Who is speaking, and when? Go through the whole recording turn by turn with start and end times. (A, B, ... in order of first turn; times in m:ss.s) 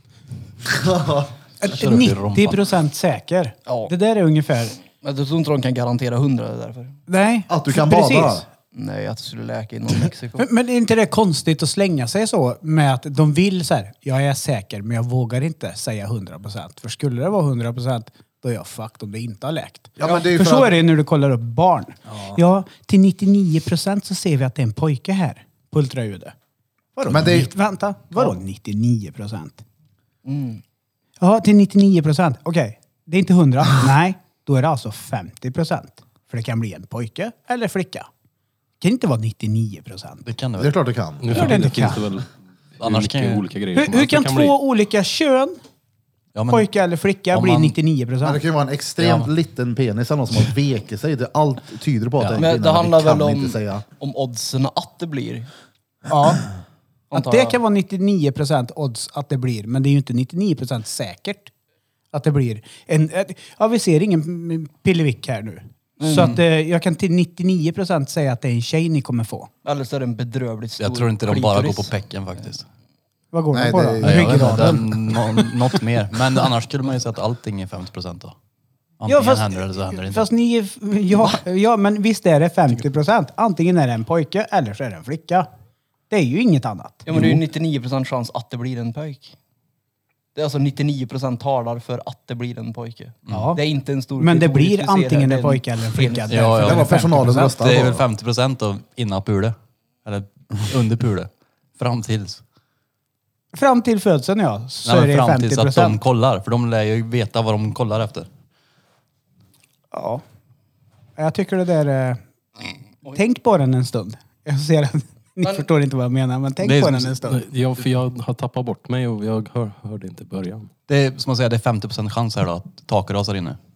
0:00.6-0:01.3 A
0:01.6-0:04.8 B
0:01.7-0:02.6 C
0:03.7-0:03.9 D
0:05.0-0:07.0 D
0:07.1-0:08.4 B
0:07.5-0:08.5 A
0:08.7-0:10.5 D
0:10.4-0:26.3 B
0:20.0-0:20.8 A
0:22.1-0:22.4 A
0:27.0-0:29.6 B
0:27.1-0:27.5 A
0:30.2-0:30.6 D
0:31.2-0:38.1 B
0:38.8-0:40.3 B
0:40.2-0:40.8 C
0:40.6-0:41.3 A
0:41.2-0:44.6 E
0:41.3-0:42.1 B
0:42.8-0:43.5 C
0:43.7-0:45.6 B
0:46.3-0:46.7 C
0:46.5-0:48.4 B
0:47.3-0:47.8 C
0:48.2-0:53.8 A
0:49.0-0:49.3 C
0:52.4-0:55.5 D
0:56.1-0:56.4 B
0:57.1-0:57.6 D
0:57.1-1:01.5 B
1:02.1-1:09.5 B
1:06.0-1:06.4 D
1:09.6-1:12.0 D
1:10.8-1:12.7 C
1:13.3-1:15.5 B
1:13.5-1:14.8 A
1:14.0-1:18.4 C
1:19.0-1:20.3 C
1:19.1-1:25.5 B
1:26.1-1:27.1 B
1:27.1-1:29.4 D
1:27.1-1:27.4 C
1:30.4-1:36.4 D
1:33.3-1:33.6 C
1:33.3-1:33.6 B
1:34.2-1:37.5 B
1:36.3-1:42.4 C
1:36.6-1:38.1 A
1:43.5-1:46.0 B
1:44.8-1:48.3 C
1:49.9-1:50.2 B
1:51.2-1:52.2 B
1:53.1-1:57.4 B
1:56.6-1:57.2 C
1:57.3-2:00.7 E
2:00.9-2:03.6 C